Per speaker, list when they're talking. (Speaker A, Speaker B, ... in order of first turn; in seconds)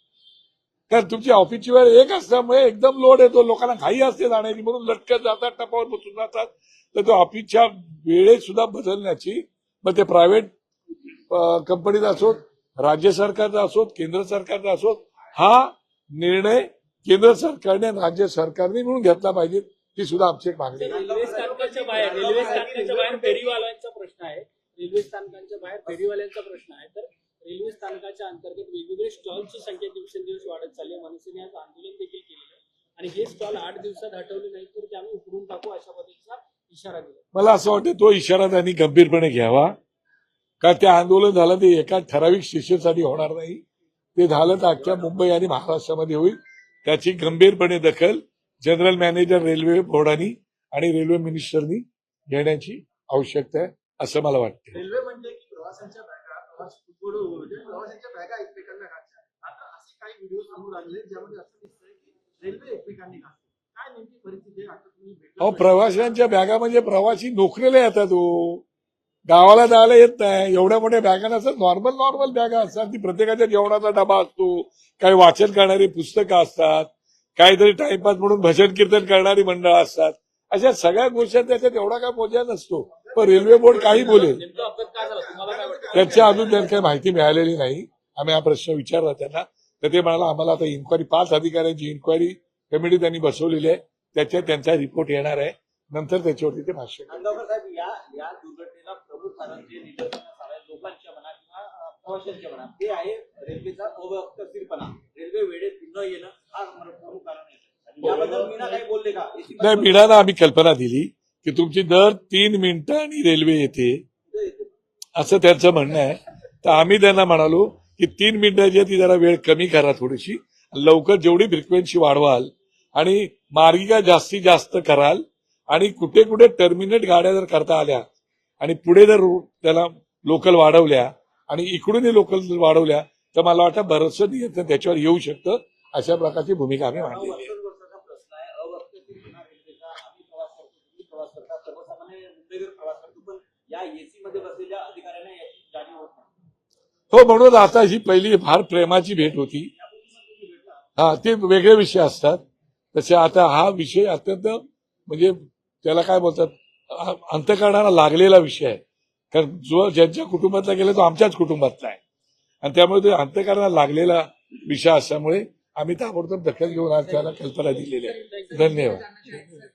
Speaker A: 0.9-10.5, 11.3-21.0, 37.3-39.7, 40.6-43.6, 44.1-54.8, 65.4-68.6, 69.3-84.4, 85.9-97.2, 109.6-114.0, 115.2-128.0, 128.6-137.5, 147.1-149.7, 151.0-152.4, 152.9-158.8, 159.3-162.0, 162.6-169.4
Speaker B: 20.8-37.2, 83.7-86.6
Speaker C: 20.9-23.4, 97.1-110.1, 114.3-114.7, 136.9-146.3, 149.6-150.8
Speaker D: 54.8-65.9, 83.1-84.0, 84.9-86.4, 108.3-108.7